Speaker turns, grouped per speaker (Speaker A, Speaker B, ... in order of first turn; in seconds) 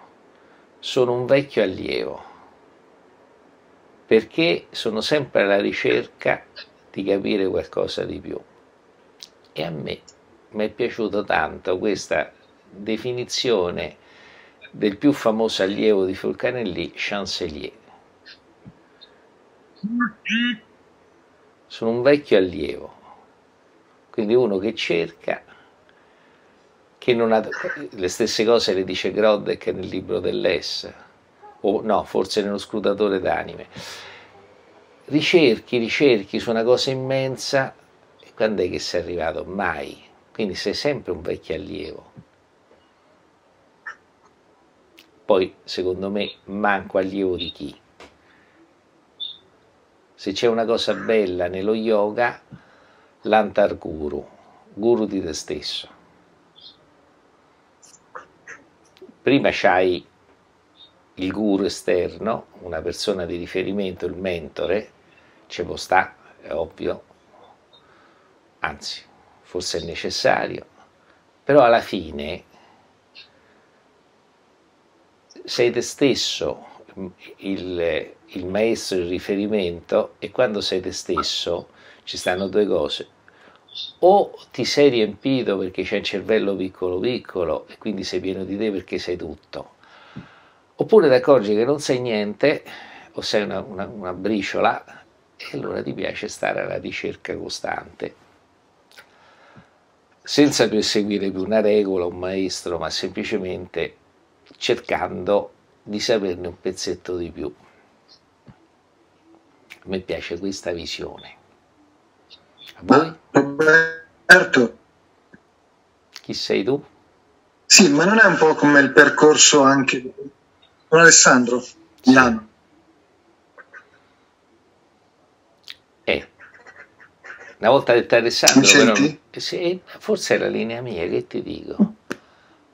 Speaker A: 0.8-2.3, 4.1-8.4, 9.5-14.0, 14.7-17.8, 21.7-23.0, 24.1-25.4, 27.0-30.9, 31.6-33.8, 35.1-37.7, 38.3-42.1, 45.3-47.8, 50.2-52.4, 53.2-55.9, 59.2-60.0, 61.1-64.9, 65.5-67.0, 68.6-70.7, 71.5-72.5, 75.4-83.1, 84.0-89.7, 90.8-94.8, 95.4-98.2, 100.2-104.0, 104.6-107.6, 109.8-111.3, 112.8-113.2, 116.2-116.8, 122.0-122.4, 127.6-131.9
Speaker B: 112.9-114.7, 117.7-120.3, 120.9-122.4, 128.5-129.1